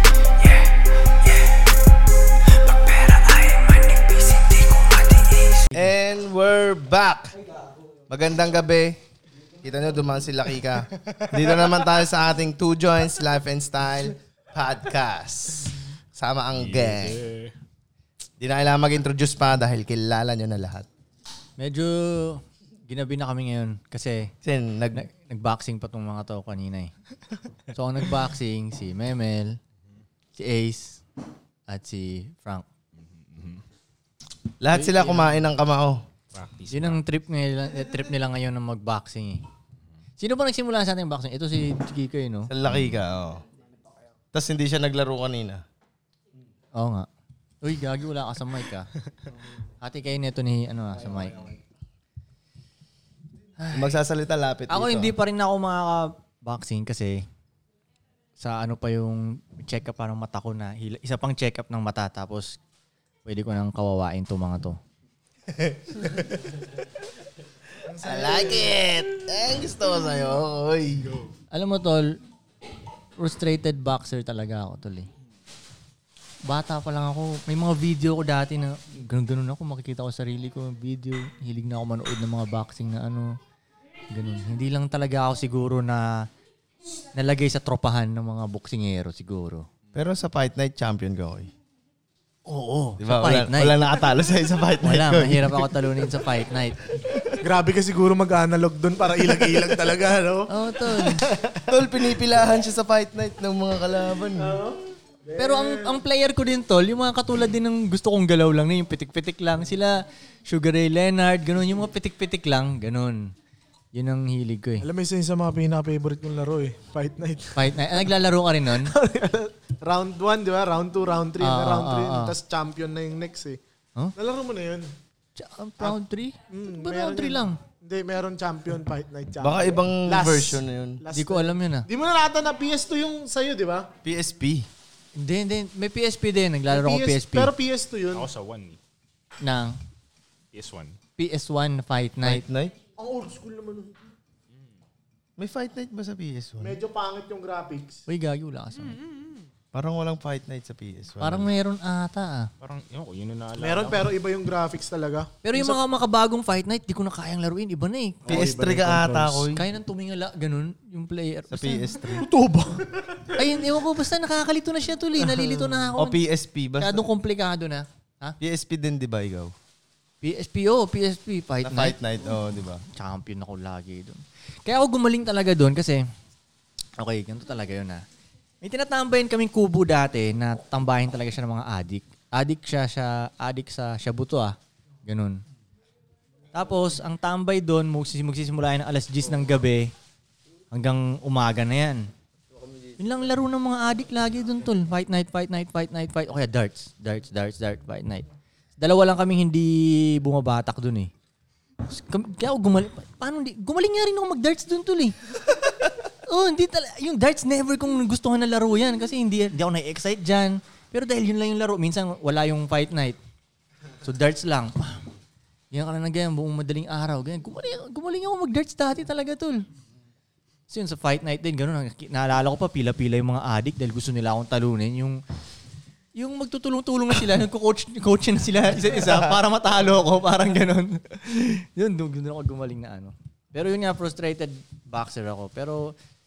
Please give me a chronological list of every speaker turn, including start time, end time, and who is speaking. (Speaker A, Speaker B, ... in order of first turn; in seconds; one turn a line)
Speaker A: 2.6-5.6
Speaker B: 3.5-3.9
Speaker C: 5.7-7.4
Speaker C: 8.1-9.0
Speaker C: 9.6-17.2
Speaker D: 16.5-17.5
Speaker C: 18.4-20.9
Speaker B: 21.6-24.3
Speaker C: 24.4-25.0
Speaker B: 24.9-26.9
Speaker B: 27.7-29.6
Speaker B: 30.3-31.0
Speaker B: 31.7-32.6
Speaker D: 33.2-33.6
Speaker C: 34.6-36.0
Speaker B: 34.7-35.2
Speaker D: 36.3-37.0
Speaker B: 36.7-39.4
Speaker B: 40.2-42.5
Speaker C: 42.5-43.4
Speaker D: 42.7-42.9
Speaker C: 44.3-45.6
Speaker B: 46.7-47.1
Speaker B: 47.6-48.9
Speaker B: 49.8-51.5
Speaker B: 53.6-54.0
Speaker C: 53.7-55.1
Speaker B: 54.7-57.2
Speaker B: 58.4-62.6
Speaker B: 63.2-64.8
Speaker E: 67.8-68.8
Speaker C: 68.0-71.2
Speaker B: 71.5-72.1
Speaker B: 73.2-75.1
Speaker B: 76.5-83.3
Speaker B: 84.1-86.3
Speaker B: 87.1-89.7
Speaker C: 89.9-91.5
Speaker B: 92.5-93.8
Speaker C: 93.0-95.7
Speaker B: 94.8-96.8
Speaker E: 97.4-101.7
Speaker B: 100.5-101.2
Speaker C: 101.7-104.7
Speaker E: 104.4-104.8
Speaker E: 105.3-106.0
Speaker B: 105.3-113.3
Speaker B: 113.9-114.9
Speaker E: 114.8-118.0
Speaker B: 117.5-118.9
Speaker E: 118.7-123.6
Speaker B: 121.4-122.3
Speaker E: 124.2-124.9
Speaker B: 125.3-127.6
Speaker E: 126.5-133.9
Speaker C: 129.4-131.0
Speaker B: 131.1-131.9
Speaker C: 134.0-134.7
Speaker B: 135.2-137.5
Speaker E: 136.7-138.3
Speaker D: 138.1-138.8
Speaker B: 139.4-139.8
Speaker D: 140.5-140.9
Speaker B: 141.2-142.4
Speaker C: 142.2-142.8
Speaker E: 142.9-143.9
Speaker C: 145.4-146.8
Speaker E: 146.6-148.0
Speaker B: 148.1-149.0
Speaker D: 148.9-149.4
Speaker C: 149.7-151.5
Speaker B: 151.2-152.5
Speaker D: 152.6-154.1
Speaker E: 153.6-155.8
Speaker B: 155.4-158.3
Speaker E: 158.2-159.5
Speaker C: 158.3-159.6
Speaker B: 159.5-161.9
Speaker C: 161.5-162.3
Speaker E: 162.2-163.4
Speaker B: 163.3-166.2
Speaker E: 165.3-165.6
Speaker C: 165.9-167.1
Speaker B: 166.8-168.4
Speaker C: 168.4-169.5
Speaker B: 170.2-171.9
Speaker C: 171.6-172.8
Speaker B: 172.9-176.0
Speaker B: 177.0-178.0
Speaker B: 178.6-185.4
Speaker B: 186.5-189.9
Speaker B: 190.7-192.1
Speaker B: 193.0-198.3
Speaker B: 198.8-201.1
Speaker B: 201.9-205.2
Speaker B: 206.3-213.2
Speaker B: 214.0-215.1
Speaker B: 215.7-219.7
Speaker B: 220.7-225.2
Speaker B: 226.1-235.9